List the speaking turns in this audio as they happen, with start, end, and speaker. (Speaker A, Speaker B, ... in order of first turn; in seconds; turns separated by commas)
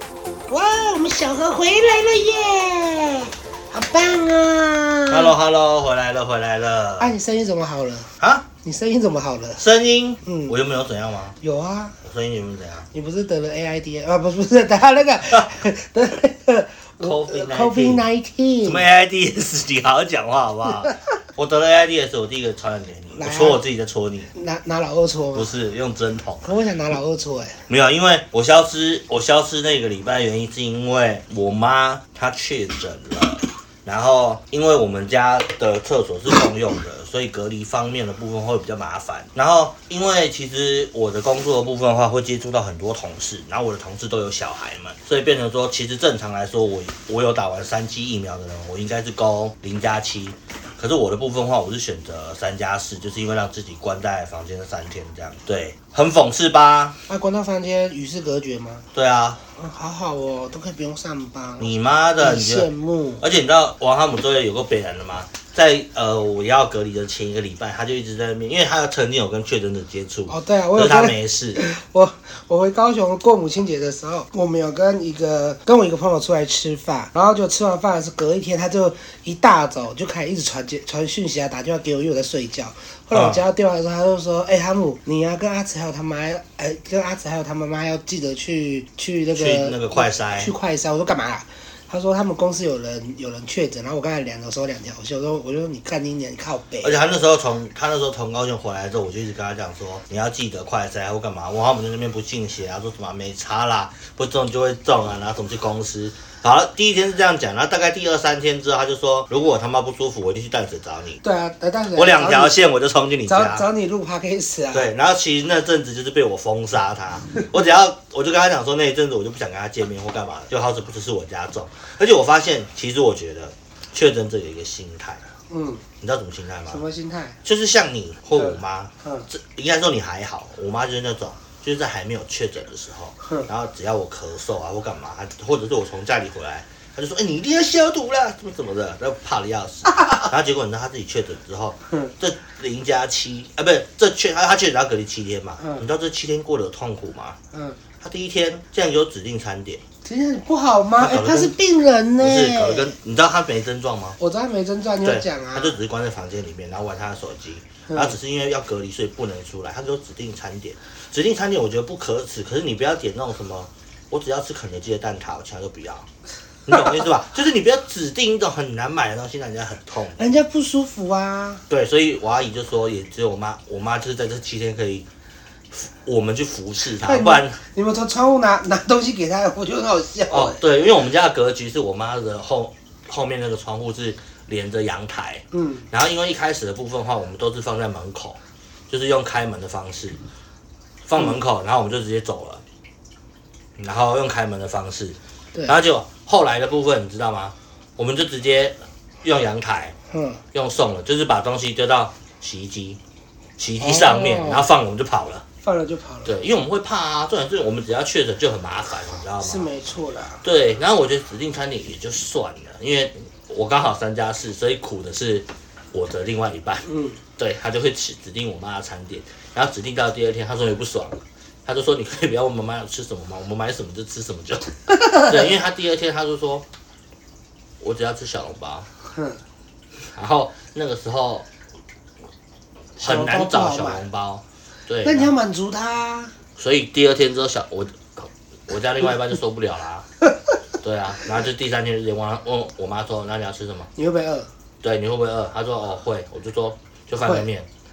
Speaker A: 0.5-5.3, Speaker B: 5.1-7.1, Speaker A: 7.0-8.1, Speaker B: 8.2-8.5, Speaker A: 8.6-9.6, Speaker B: 9.6-11.4, Speaker A: 10.2-10.5, Speaker A: 11.4-11.9, Speaker B: 12.0-12.9, Speaker A: 12.9-18.8, Speaker B: 17.0-18.0, Speaker B: 18.6-24.3, Speaker A: 23.1-23.6, Speaker A: 24.3-25.5, Speaker B: 25.3-26.5, Speaker A: 26.4-27.6, Speaker B: 27.7-57.0, Speaker A: 57.1-58.8, Speaker B: 58.9-59.4, Speaker A: 59.5-63.2, Speaker B: 61.6-62.7, Speaker B: 63.2-71.6, Speaker A: 70.3-97.0, Speaker B: 83.1-83.4, Speaker B: 89.3-90.5, Speaker B: 96.8-111.2, Speaker A: 111.2-112.5, Speaker B: 111.9-113.7, Speaker A: 113.3-114.9, Speaker B: 114.7-125.2, Speaker A: 125.5-125.8, Speaker B: 126.0-126.8, Speaker A: 126.7-127.4, Speaker B: 127.4-147.4, Speaker A: 128.4-129.3, Speaker A: 145.6-145.8, Speaker A: 147.5-147.8, Speaker B: 148.0-149.8, Speaker A: 150.0-152.9, Speaker B: 151.0-151.5, Speaker B: 152.2-154.2, Speaker A: 154.2-155.7, Speaker B: 155.0-166.1, Speaker A: 157.9-158.1, Speaker B: 166.7-170.2, Speaker A: 170.2-171.6, Speaker B: 171.7-175.1, Speaker B: 175.7-177.6, Speaker A: 177.0-180.6, Speaker B: 180.3-190.2, Speaker A: 185.5-185.9, Speaker B: 191.0-192.6, Speaker B: 193.8-199.9, Speaker A: 200.1-200.4, Speaker B: 200.5-203.0, Speaker B: 203.6-205.4, Speaker A: 203.8-204.7, Speaker A: 205.6-206.3, Speaker B: 206.2-209.7, Speaker A: 209.4-210.4, Speaker B: 210.4-226.6, Speaker A: 216.8-217.2, Speaker B: 227.8-228.9, Speaker A: 229.1-229.4, Speaker B: 230.0-231.4, Speaker A: 233.0-234.0, Speaker B: 233.0-235.3, Speaker A: 235.0-236.3, Speaker B: 236.6-240.1, Speaker B: 240.8-243.9, Speaker A: 243.9-244.5, Speaker B: 244.8-247.7